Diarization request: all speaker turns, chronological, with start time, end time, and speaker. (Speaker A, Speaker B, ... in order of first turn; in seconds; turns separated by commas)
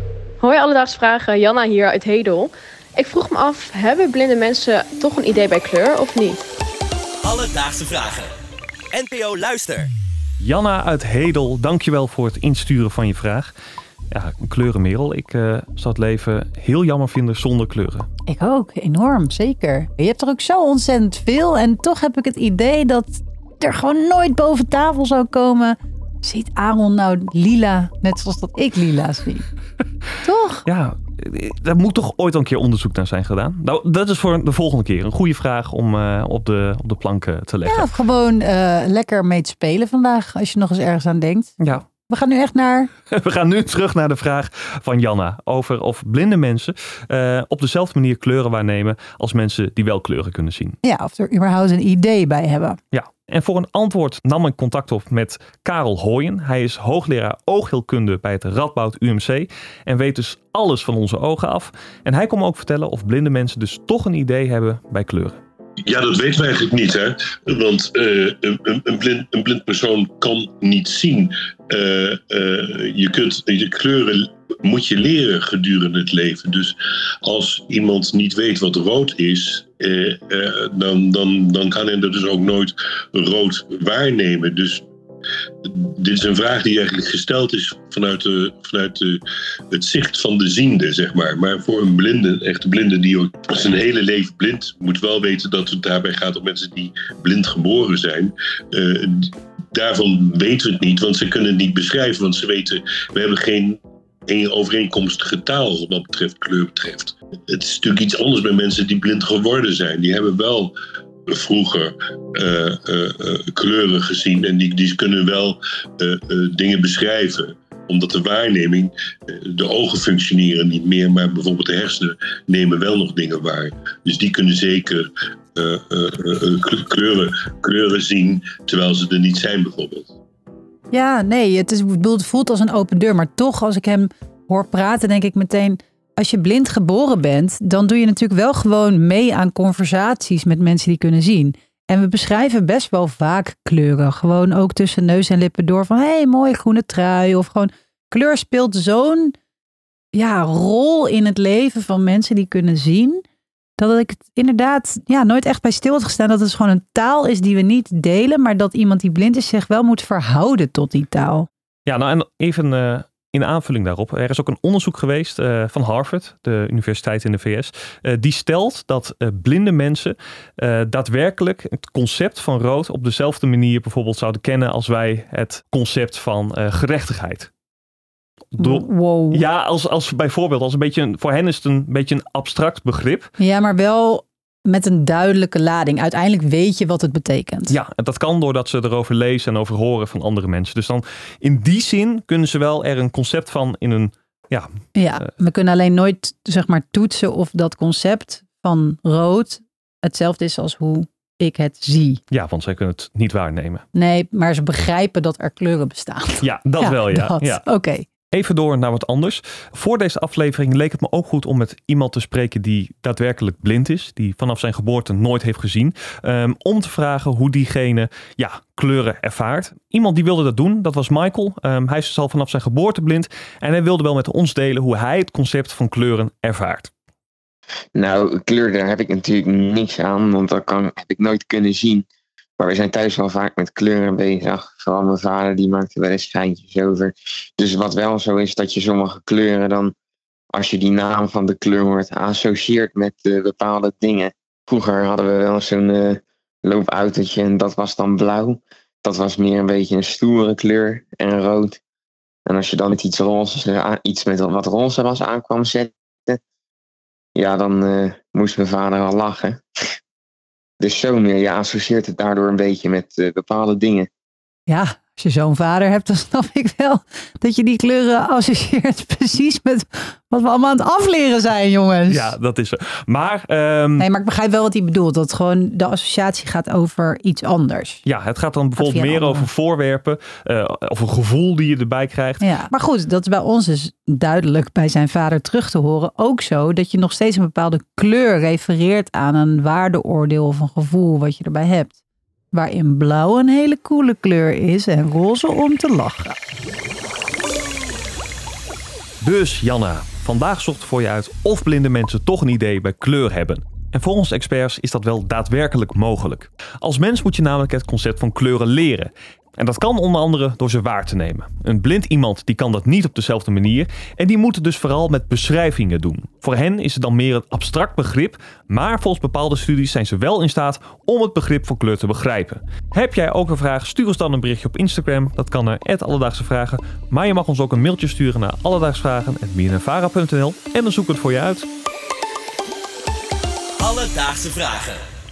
Speaker A: 0.4-6.4, Speaker B: 7.2-8.3, Speaker B: 8.9-9.9, Speaker C: 10.4-13.5, Speaker C: 14.1-18.1, Speaker D: 18.3-29.4, Speaker D: 30.2-30.6, Speaker C: 30.7-37.9, Speaker D: 37.6-42.9, Speaker C: 41.6-41.9, Speaker C: 43.1-50.8, Speaker D: 50.8-52.8, Speaker C: 52.9-65.4, Speaker E: 65.8-84.8, Speaker E: 85.6-110.7, Speaker E: 111.3-130.1, Speaker D: 130.9-149.3, Speaker D: 150.1-153.2, Speaker D: 153.8-161.5, Speaker C: 161.9-177.5, Speaker C: 178.5-183.3, Speaker D: 178.6-179.4, Speaker D: 183.4-187.8, Speaker C: 187.7-194.7, Speaker D: 194.9-202.2, Speaker C: 202.3-203.8, Speaker D: 203.9-208.1, Speaker C: 206.4-207.6, Speaker C: 208.3-226.9, Speaker F: 227.9-232.1, Speaker F: 232.6-239.9, Speaker F: 240.5-251.8, Speaker F: 252.5-256.4, Speaker F: 257.4-259.6, Speaker F: 260.8-264.1, Speaker D: 264.7-272.3, Speaker C: 272.1-274.1, Speaker D: 274.0-278.0, Speaker C: 278.1-282.4, Speaker D: 278.8-279.5, Speaker D: 282.4-292.0, Speaker D: 292.5-296.4, Speaker C: 299.2-331.7, Speaker B: 333.8-335.0